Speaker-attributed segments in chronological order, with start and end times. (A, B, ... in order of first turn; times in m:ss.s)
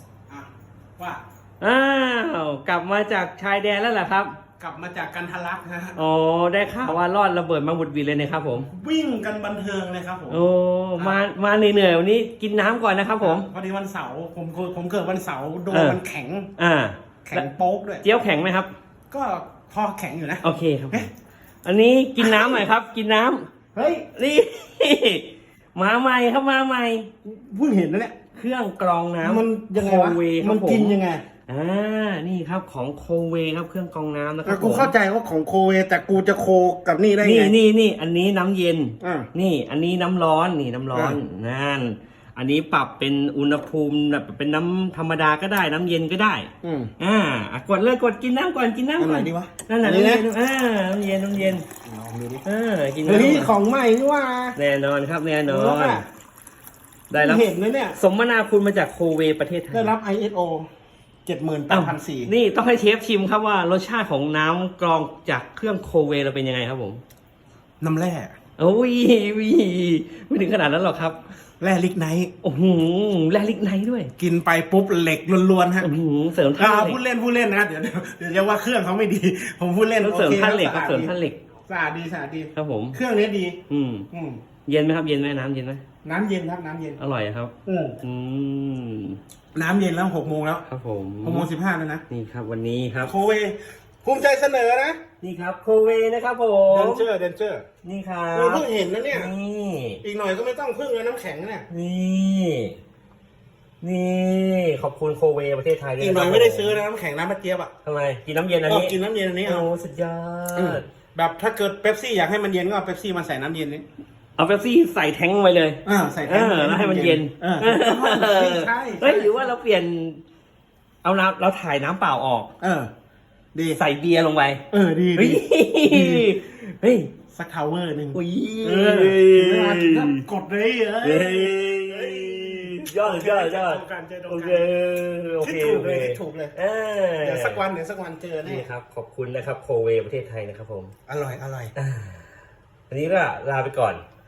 0:00.3-0:01.2 A
0:01.6-0:04.4 B
0:04.6-0:06.0 A
0:06.0-0:08.7 B
0:08.7-0:10.4 A
0:10.3-0:13.5 B
0:13.2-0:16.5 A
0:15.7-0:16.0 B
0:16.6-0:17.5 B
0:17.2-0:18.0 A
0:18.0-0:18.7 B
0:19.1-0:21.1 A
0:20.4-0:21.1 B
0:21.6-0:23.5 B
0:22.2-0:22.6 A
0:23.7-0:24.1 A
0:24.2-0:27.1 B
0:27.2-0:28.2 A
0:28.3-0:34.9 B
0:29.2-0:31.2 A
0:34.4-0:37.6 A
0:37.2-0:51.6 B
0:39.0-0:39.3 A
0:40.9-0:41.2 A
0:46.6-0:46.9 A
0:49.0-0:50.3 A
0:51.7-0:52.4 A
0:52.4-0:53.5 B
0:53.0-0:54.6 A
0:54.6-0:56.0 B
0:55.5-0:56.0 A
0:57.1-0:59.9 B
0:57.1-0:58.0 A
0:59.7-1:00.7 A
1:01.2-1:02.3 A
1:01.7-1:07.0 B
1:07.8-1:08.4 A
1:08.6-1:11.2 B
1:11.6-1:12.3 A
1:12.4-1:14.1 B
1:14.2-1:15.9 A
1:15.8-1:17.0 B
1:16.6-1:21.1 A
1:20.0-1:21.4 B
1:21.7-1:23.6 A
1:22.5-1:23.0 B
1:23.7-1:24.1 B
1:24.1-1:24.4 A
1:24.6-1:25.8 B
1:26.0-1:27.0 A
1:27.0-1:29.2 B
1:27.6-1:28.0 A
1:29.5-1:30.6 A
1:30.7-1:31.5 B
1:31.2-1:32.0 A
1:32.1-1:33.1 B
1:33.0-1:35.0 A
1:35.2-1:37.0 B
1:36.7-1:37.6 A
1:37.8-1:40.0 B
1:38.3-1:39.3 A
1:40.0-1:41.7 A
1:41.7-1:42.8 B
1:43.8-1:46.8 B
1:46.0-1:47.7 A
1:47.8-1:50.8 B
1:48.7-1:49.7 A
1:50.6-1:53.8 A
1:54.4-2:00.2 B
1:55.8-1:59.5 A
2:01.0-2:02.5 B
2:02.6-2:02.9 A
2:03.5-2:03.8 A
2:03.7-2:04.6 B
2:04.7-2:06.3 A
2:05.2-2:07.1 B
2:07.3-2:14.7 A
2:08.1-2:10.2 B
2:11.0-2:17.6 B
2:15.4-2:16.5 A
2:17.2-2:18.7 A
2:18.4-2:20.9 B
2:21.1-2:21.7 A
2:21.8-2:22.2 B
2:22.9-2:24.0 B